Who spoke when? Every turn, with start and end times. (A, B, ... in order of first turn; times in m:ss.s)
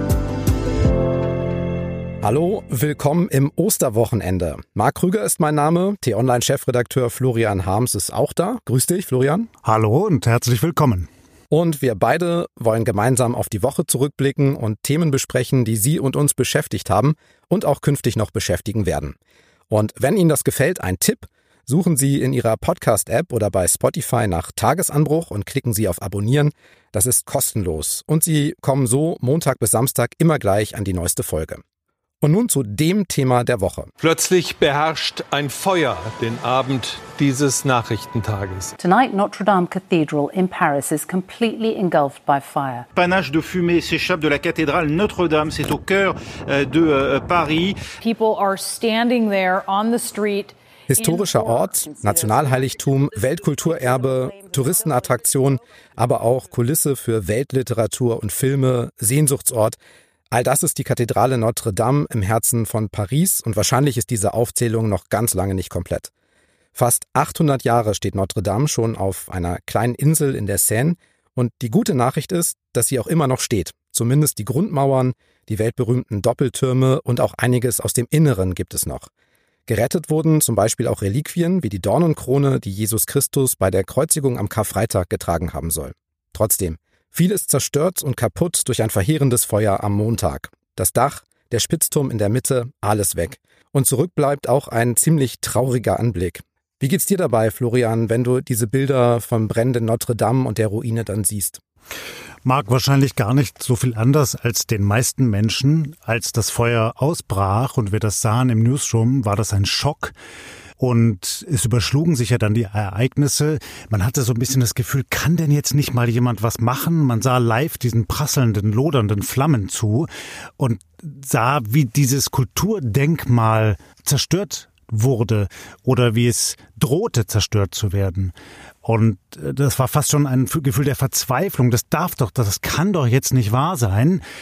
0:02.2-0:09.5 A
0:09.6-0:11.1 B
0:11.5-0:19.2 A
0:19.7-0:31.6 A
0:32.2-0:33.9 A
0:34.0-0:38.7 C
0:38.8-0:42.8 D
0:42.9-0:47.8 E
0:48.0-0:51.9 F
0:50.9-0:59.8 A
1:00.3-1:06.1 A
1:06.8-1:19.1 A
1:19.7-1:41.6 A
1:42.4-1:50.1 B
1:50.8-2:08.3 B
2:08.8-2:14.2 B